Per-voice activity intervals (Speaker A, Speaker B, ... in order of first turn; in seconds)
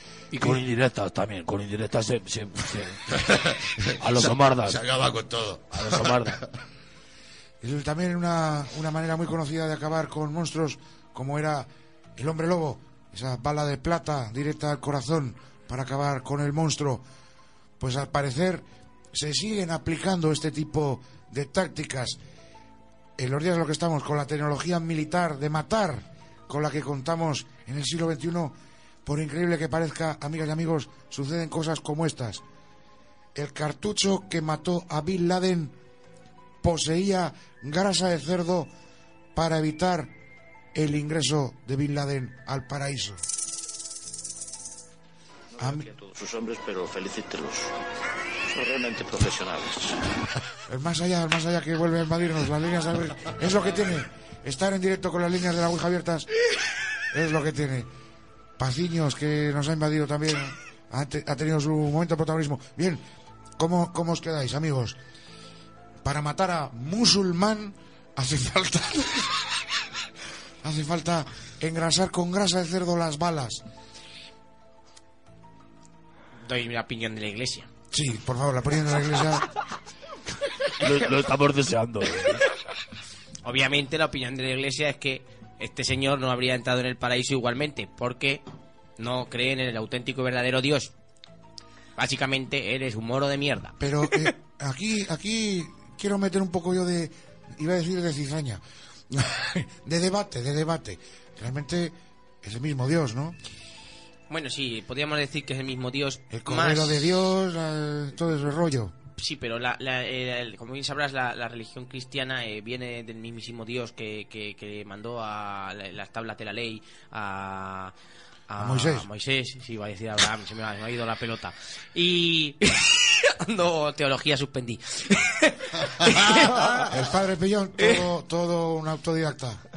Speaker A: 0.3-4.8, 5.7-6.4, 80.8-82.5
Speaker B: 0.3-0.7, 7.6-17.0, 17.8-22.2, 23.2-32.4, 33.3-35.8, 36.6-38.7, 39.3-40.1, 40.7-43.2, 45.6-45.9, 50.7-56.3, 57.1-57.9, 58.6-63.0, 63.6-65.0, 66.0-69.4, 70.6-73.6, 77.9-79.4, 93.8-103.4, 106.3-108.9, 118.6-119.1, 126.7-129.6
Speaker C: 4.1-6.2
Speaker D: 45.9-47.7, 48.5-50.0
Speaker E: 76.4-77.7, 83.4-88.4, 89.0-90.9, 92.0-93.8, 104.3-107.3, 109.2-117.9, 118.5-126.9